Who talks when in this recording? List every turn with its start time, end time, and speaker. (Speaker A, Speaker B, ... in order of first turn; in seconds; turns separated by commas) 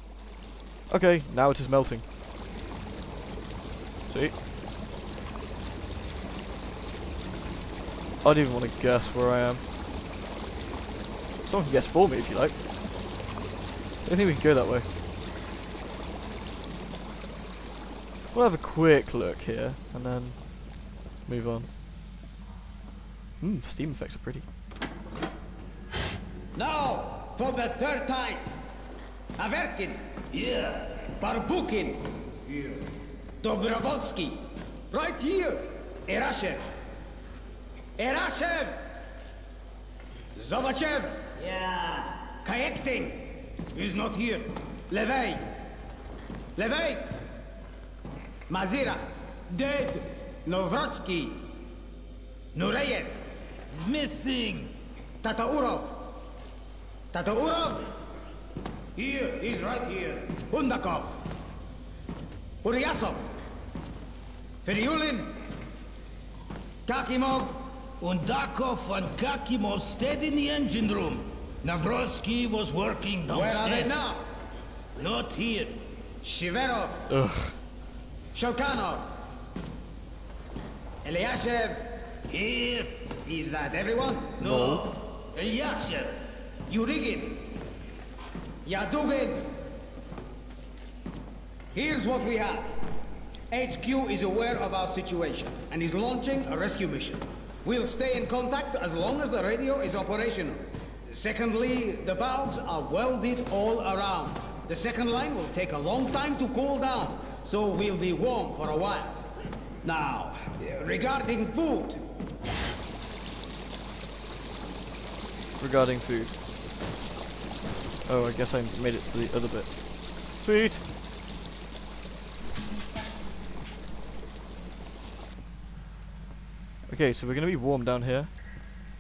Speaker A: 0.9-2.1, Speaker A: 4.1-4.4, Speaker A: 8.2-9.7, Speaker A: 11.4-12.6, Speaker A: 14.0-14.9, Speaker A: 18.3-20.7, Speaker A: 21.2-21.7, Speaker A: 23.4-24.5, Speaker B: 26.5-28.4, Speaker B: 29.4-30.0, Speaker C: 30.3-31.1, Speaker B: 31.2-32.1, Speaker B: 33.4-34.4, Speaker B: 34.9-36.7, Speaker B: 38.0-38.8, Speaker B: 40.4-45.5, Speaker B: 46.6-47.1, Speaker B: 48.5-51.5, Speaker B: 52.5-53.2, Speaker C: 53.7-54.8, Speaker B: 55.2-56.1, Speaker B: 57.1-57.9, Speaker B: 59.0-61.2, Speaker B: 62.6-63.3, Speaker B: 64.6-65.3, Speaker B: 66.9-67.6, Speaker C: 68.0-74.1, Speaker B: 73.3-74.2, Speaker C: 75.0-75.8, Speaker B: 76.2-77.1, Speaker A: 77.1-77.6, Speaker B: 78.3-79.1, Speaker B: 81.0-81.9, Speaker C: 82.3-83.1, Speaker B: 83.2-84.4, Speaker C: 84.4-86.2, Speaker A: 84.4-84.9, Speaker B: 86.7-87.5, Speaker B: 88.7-89.5, Speaker B: 91.7-92.8, Speaker B: 93.5-109.2, Speaker B: 109.8-112.0, Speaker A: 115.6-116.4, Speaker A: 118.0-120.9, Speaker A: 126.9-128.6